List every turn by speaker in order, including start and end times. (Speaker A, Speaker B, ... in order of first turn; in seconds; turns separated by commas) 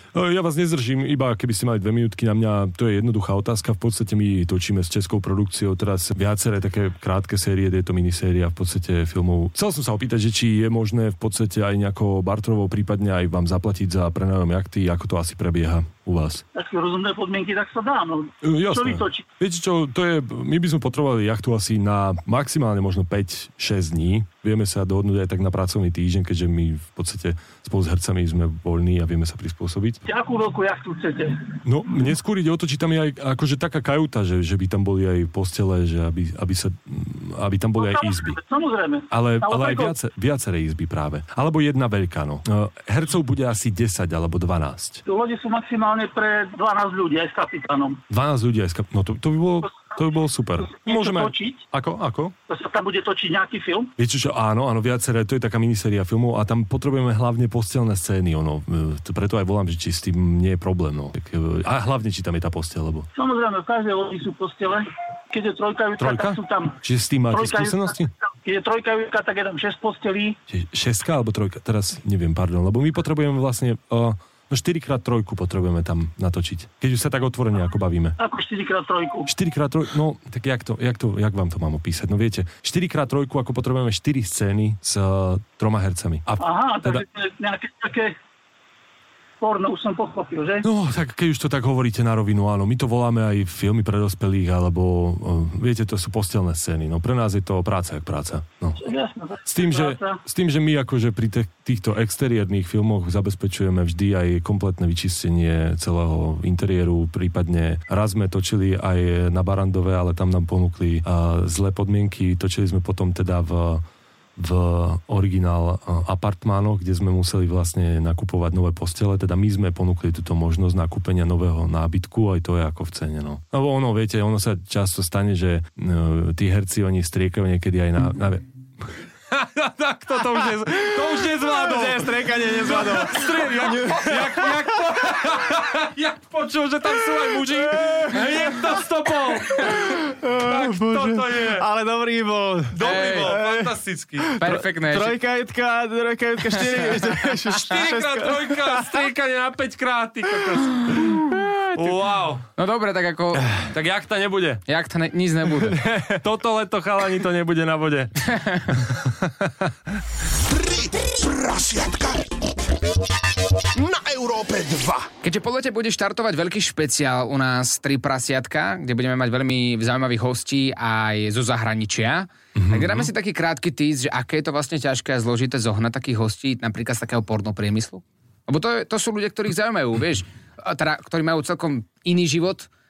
Speaker A: 0.1-16.4, Speaker B: 16.5-19.2, Speaker A: 18.4-30.0, Speaker B: 30.1-31.4, Speaker A: 31.6-38.4, Speaker B: 37.8-39.9, Speaker A: 39.1-45.0, Speaker B: 45.1-48.0, Speaker A: 48.1-52.3, Speaker B: 50.7-51.6, Speaker B: 52.5-53.9, Speaker A: 54.0-63.1, Speaker B: 63.1-66.8, Speaker A: 66.0-68.1, Speaker B: 67.3-67.9, Speaker B: 68.4-70.3, Speaker A: 70.5-78.2, Speaker B: 78.2-79.3, Speaker A: 79.3-87.0, Speaker B: 86.4-88.1, Speaker B: 89.4-90.6, Speaker A: 90.6-98.8, Speaker B: 98.8-100.2, Speaker A: 99.5-113.8, Speaker A: 114.4-128.4, Speaker A: 129.3-141.6, Speaker C: 131.0-135.3, Speaker C: 137.2-138.7, Speaker C: 139.6-149.0, Speaker A: 142.7-144.4, Speaker D: 142.8-143.4, Speaker D: 144.4-145.1, Speaker A: 147.6-152.4, Speaker C: 151.3-152.0, Speaker D: 152.6-153.5, Speaker A: 153.7-154.6, Speaker D: 154.7-155.8, Speaker C: 155.7-156.1, Speaker A: 156.2-159.5, Speaker E: 160.5-162.2, Speaker E: 163.8-165.1, Speaker D: 165.2-182.7, Speaker A: 172.6-173.1